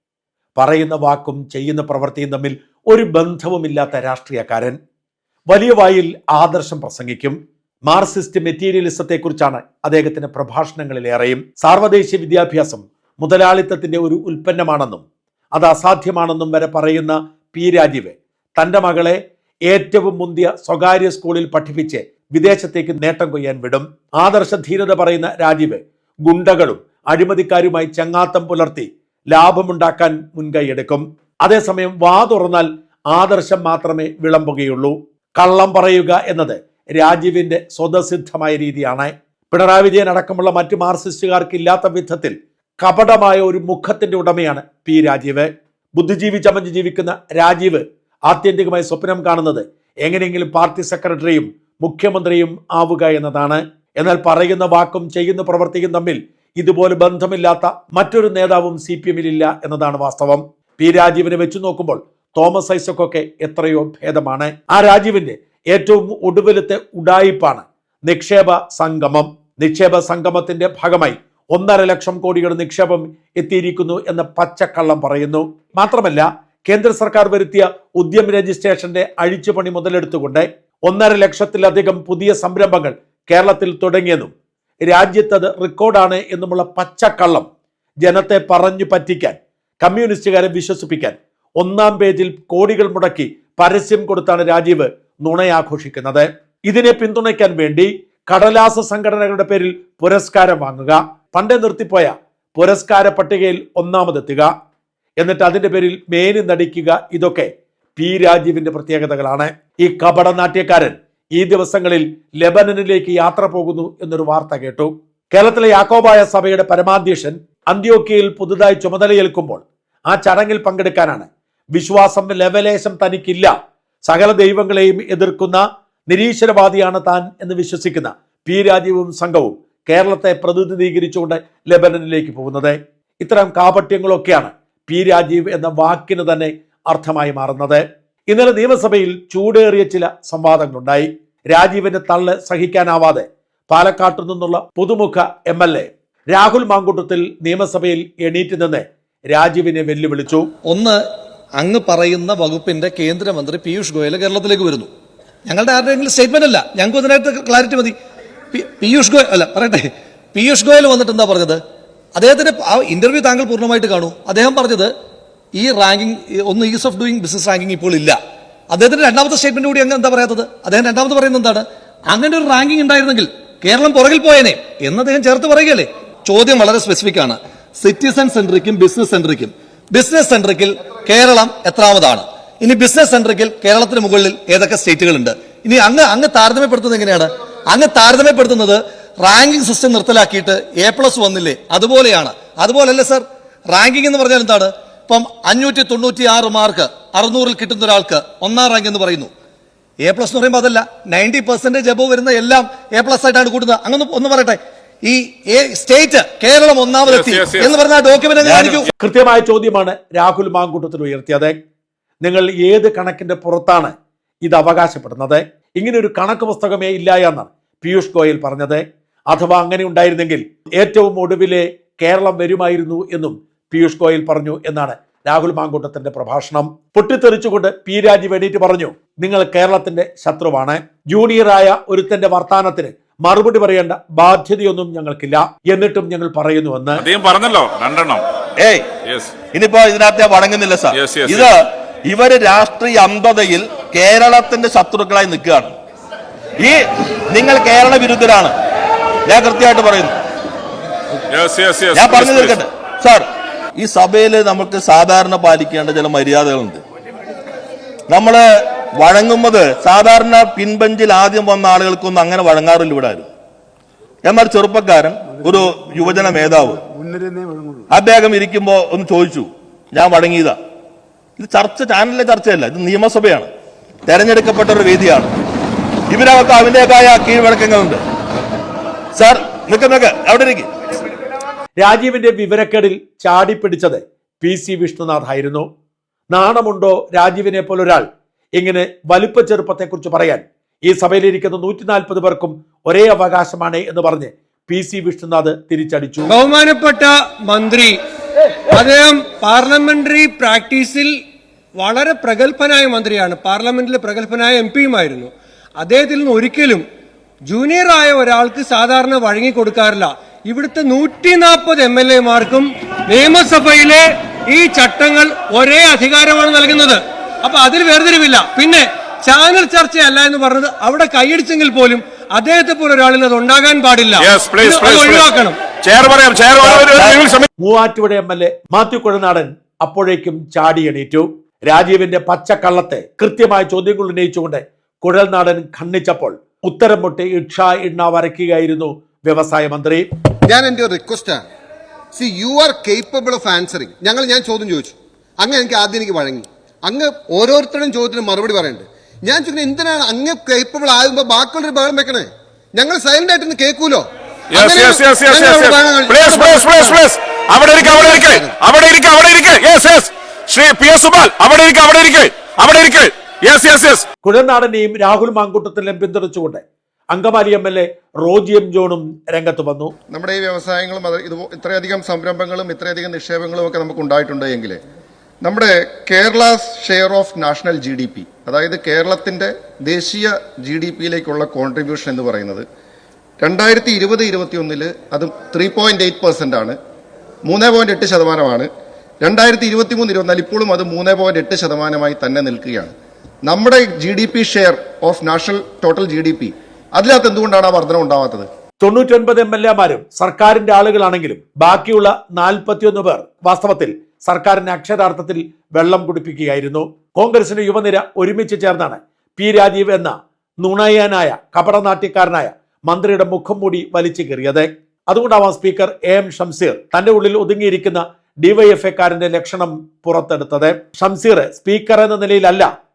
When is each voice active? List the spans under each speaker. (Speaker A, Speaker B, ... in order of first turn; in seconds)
Speaker A: 0.6-4.8, 5.5-7.4, 7.9-15.0, 15.6-84.3, 84.8-87.5, 88.0-104.5, 105.2-123.5, 124.1-150.5, 209.0-211.6, 212.2-213.9, 214.4-237.0, 281.8-285.7, 286.3-288.1, 288.6-296.3, 327.6-340.1, 364.2-369.9, 398.8-422.7
Speaker B: 150.7-151.0, 151.6-154.9, 155.5-157.9, 158.5-161.6, 162.2-164.9, 165.6-168.2, 168.7-199.3, 200.0-208.9
Speaker C: 207.1-207.7, 237.0-238.2, 239.1-239.3, 240.9-241.5, 251.3-252.6, 324.2-325.3, 325.8-327.5, 354.5-364.1
Speaker D: 208.4-208.9, 238.6-238.9, 239.5-245.8, 246.6-248.6, 249.3-250.2, 251.9-253.3, 253.8-256.8, 258.1-263.3, 264.2-266.9, 267.9-270.6, 271.4-273.5, 274.1-275.3, 276.1-278.0, 279.2-280.7, 326.6-327.3
Speaker E: 296.3-298.0, 298.7-301.1, 301.8-306.9, 307.5-325.6
Speaker F: 340.5-341.4, 342.2-354.0, 354.6-356.9
Speaker G: 370.1-374.8, 375.4-382.7, 383.4-386.8, 387.5-388.7, 389.2-392.9, 393.5-398.5